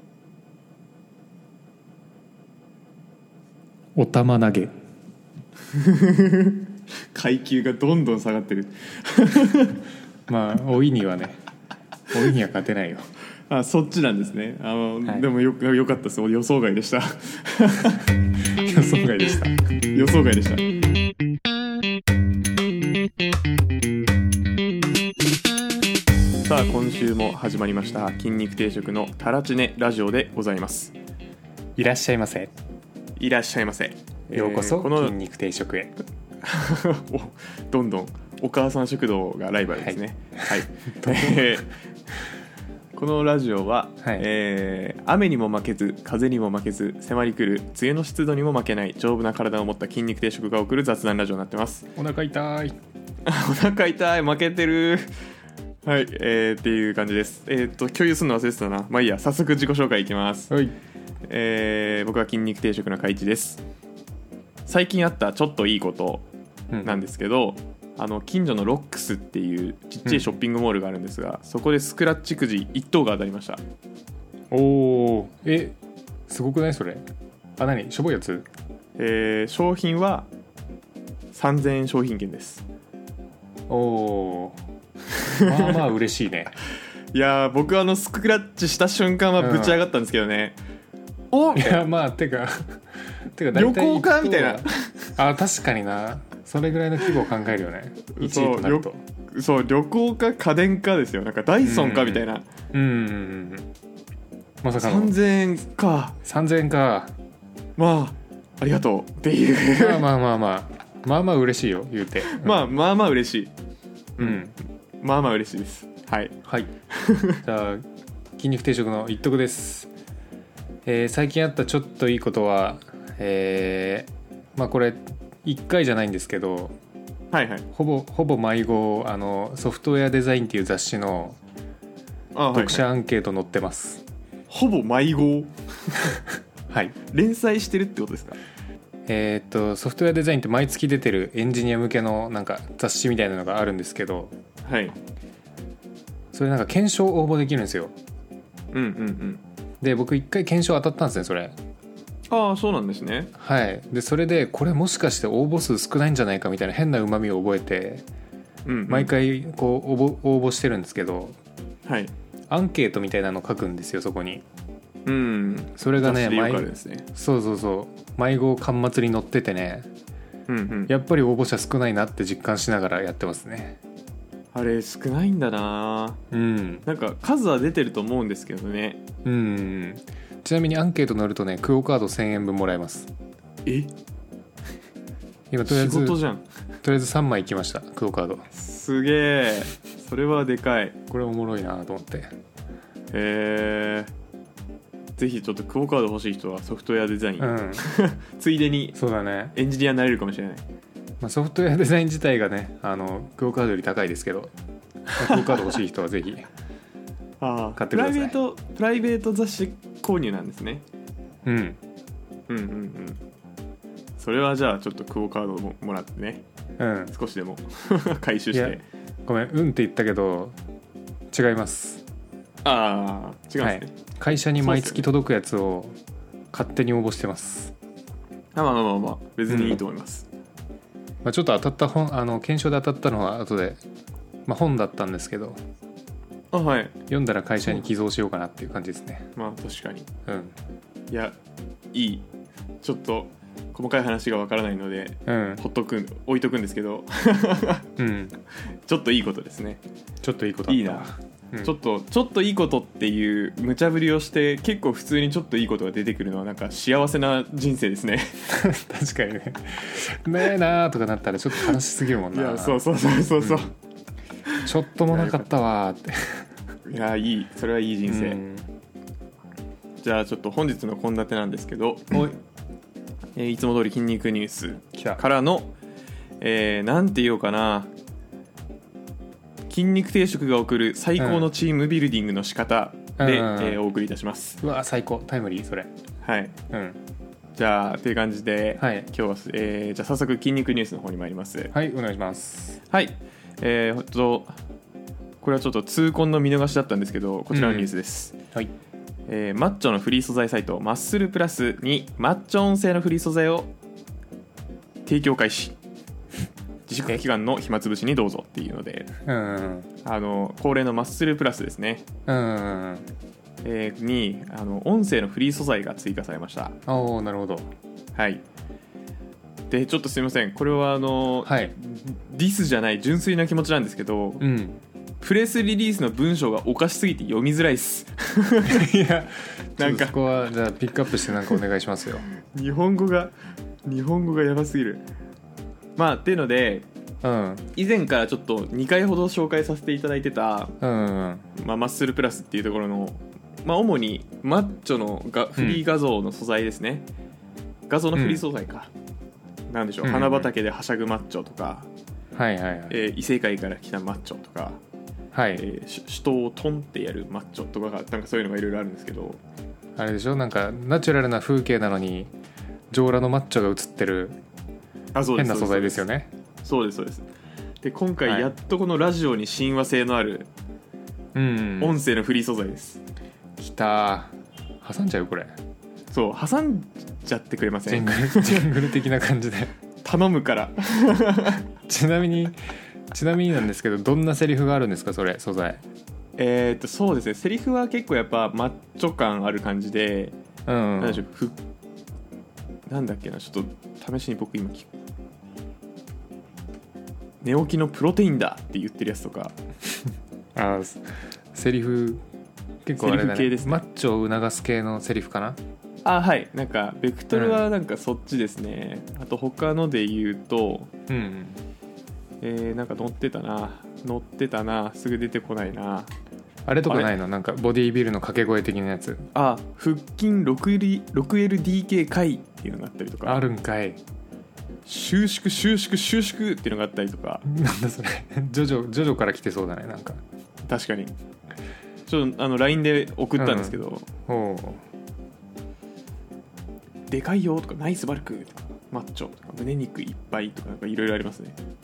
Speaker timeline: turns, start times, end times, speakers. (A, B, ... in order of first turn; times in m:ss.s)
0:04.0-0:04.7 A
0:05.7-0:09.8 B
0:10.3-0:11.4 A
0:12.1-0:13.0 A
0:13.5-0:18.0 B
0:18.5-0:19.6 A
0:19.9-0:20.7 B
0:26.4-0:31.0 B
0:31.8-0:32.5 A
0:33.2-0:35.2 B
0:34.3-0:35.9 A
0:36.4-0:41.7 B
0:39.8-0:41.5 A
0:43.0-0:51.9 B
0:52.0-0:52.8 A
0:53.2-0:55.1 B
0:55.8-1:00.5 B
1:00.5-1:00.7 A
1:01.3-1:03.6 B
1:04.7-1:06.2 B
1:06.7-1:07.0 A
1:06.8-1:13.6 B
1:10.1-1:10.3 A
1:14.5-1:15.8 A
1:16.3-1:17.1 A
1:17.6-1:18.5 A
1:19.0-1:20.3 B
1:21.3-1:22.6 B
1:23.7-1:24.6 A
1:25.2-1:25.8 B
1:25.2-1:26.5 A
1:27.1-1:30.6 B
1:29.4-1:29.8 A
1:31.3-1:31.8 B
1:31.5-1:39.0 A
1:33.5-1:35.1 B
1:38.1-1:42.5 B
1:41.6-1:43.7 A
1:44.6-1:45.2 A
1:44.8-1:46.2 B
1:46.2-1:47.1 A
1:47.8-1:50.0 B
1:49.7-1:52.7 A
1:52.2-1:53.5 B
1:54.2-1:54.5 B
1:54.2-1:54.5 A
1:55.0-1:56.3 B
1:56.4-1:56.7 A
1:56.9-1:57.4 B
1:57.4-1:57.8 A
1:58.4-1:59.9 A
2:00.8-2:06.8 A
2:07.3-2:07.7 B
2:07.7-2:11.4 A
2:12.3-2:12.8 B
2:12.5-2:14.0 A
2:14.5-2:16.1 B
2:16.7-2:17.0 A
2:17.1-2:18.4 B
2:19.1-2:24.4 A
2:24.6-2:24.9 B
2:26.3-2:27.9 A
2:28.7-2:29.4 B
2:29.8-2:31.6 A
2:32.3-2:33.3 B
2:33.3-2:38.0 A
2:38.7-2:39.1 B
2:38.9-2:41.4 A
2:41.9-2:42.1 B
2:42.5-2:44.4 A
2:45.1-2:47.0 B
2:45.8-2:49.9 A
2:50.5-2:50.9 B
2:50.9-2:53.8 A
2:54.5-2:56.2 B
2:56.3-2:56.8 A
2:56.9-2:59.0 B
2:59.2-3:03.1 A
3:03.6-3:03.9 B
3:05.5-3:06.2 A
3:05.6-3:06.4 B
3:06.8-3:08.5 A
3:08.5-3:11.0 B
3:11.1-3:12.3 A
3:13.1-3:14.1 B
3:15.2-3:19.0 B
3:17.4-3:17.8 A
3:18.9-3:19.6 A
3:19.5-3:20.6 B
3:21.2-3:24.5 A
3:25.1-3:25.7 B
3:25.2-3:26.5 A
3:27.4-3:30.8 B
3:27.8-3:28.4 A
3:31.4-3:31.8 A
3:32.5-3:33.2 B
3:34.2-3:36.4 B
3:36.8-3:37.2 A
3:37.1-3:38.8 B
3:38.5-3:40.6 A
3:41.3-3:42.0 A
3:42.6-3:45.1 B
3:43.6-3:46.0 A
3:46.5-3:47.7 A
3:48.6-3:50.3 B
3:49.5-3:49.8 A
3:51.2-3:53.8 A
3:54.5-3:55.6 A
3:56.5-3:57.0 B
3:57.1-3:59.3 A
3:59.4-4:00.1 B
4:00.2-4:00.6 A
4:01.1-4:01.4 B
4:01.9-4:02.2 B
4:02.8-4:07.9 B
4:05.3-4:05.6 A
4:08.0-4:08.3 A
4:08.9-4:09.8 B
4:10.2-4:11.7 A
4:10.7-4:11.1 B
4:11.6-4:18.4 B
4:18.5-4:22.8 A
4:22.3-4:23.7 B
4:23.4-4:23.7 A
4:24.5-4:25.5 B
4:24.6-4:26.5 A
4:26.9-4:28.4 B
4:28.1-4:28.7 A
4:30.0-4:32.4 B
4:33.4-4:35.7 B
4:34.9-4:35.2 A
4:36.4-4:37.9 B
4:39.7-4:44.6 B
4:41.2-4:41.5 A
4:43.2-4:43.8 A
4:44.6-4:45.9 A
4:46.2-4:46.6 B
4:46.7-4:47.0 A
4:47.6-4:51.7 B
4:48.8-4:49.1 A
4:51.7-4:52.8 A
4:52.9-4:54.6 B
4:55.4-4:58.4 B
4:57.5-4:57.9 A
4:59.3-5:03.7 B
5:05.0-5:05.8 B
5:06.9-5:09.1 B
5:09.2-5:09.9 A
5:10.0-5:12.1 B
5:12.3-5:13.1 A
5:13.6-5:16.8 B
5:16.9-5:17.7 A
5:18.1-5:18.4 B
5:19.7-5:24.5 B
5:21.4-5:21.7 A
5:24.4-5:24.8 A
5:25.2-5:28.9 B
5:28.7-5:32.2 A
5:29.8-5:30.2 B
5:32.5-5:33.3 B
5:33.8-5:35.0 B
5:36.0-5:36.9 B
5:37.2-5:37.7 A
5:37.8-5:40.8 B
5:40.8-5:41.5 A
5:41.6-5:47.1 B
5:45.6-5:45.8 A
5:47.9-5:48.9 B
5:48.1-5:48.4 A
5:49.7-5:51.9 B
5:50.0-5:50.5 A
5:52.3-5:53.0 A
5:52.9-5:54.8 B
5:55.3-5:55.7 A
5:55.5-5:59.4 B
6:00.0-6:02.3 A
6:02.9-6:04.4 A
6:05.1-6:06.1 B
6:05.4-6:06.3 A
6:06.6-6:07.3 B
6:07.8-6:10.5 B
6:08.2-6:08.5 A
6:11.4-6:12.0 A
6:11.8-6:13.0 B
6:13.6-6:15.6 A
6:16.1-6:18.8 B
6:17.9-6:19.7 A
6:20.0-6:21.7 B
6:21.9-6:25.8 A
6:26.4-6:30.4 B
6:30.7-6:31.2 A
6:31.0-6:31.6 B
6:32.9-6:34.9 B
6:37.4-6:39.6 B
6:40.6-6:42.2 A
6:42.8-6:45.6 A
6:43.0-6:43.8 B
6:46.0-6:50.9 B
6:47.3-6:47.7 A
6:51.1-6:51.6 A
6:52.4-6:56.1 B
6:56.7-6:59.3 A
6:59.3-7:03.4 B
7:03.2-7:04.0 A
7:04.9-7:07.4 B
7:07.4-7:10.2 A
7:10.7-7:11.1 B
7:12.1-7:14.1 B
7:13.4-7:14.8 A
7:17.1-7:21.6 B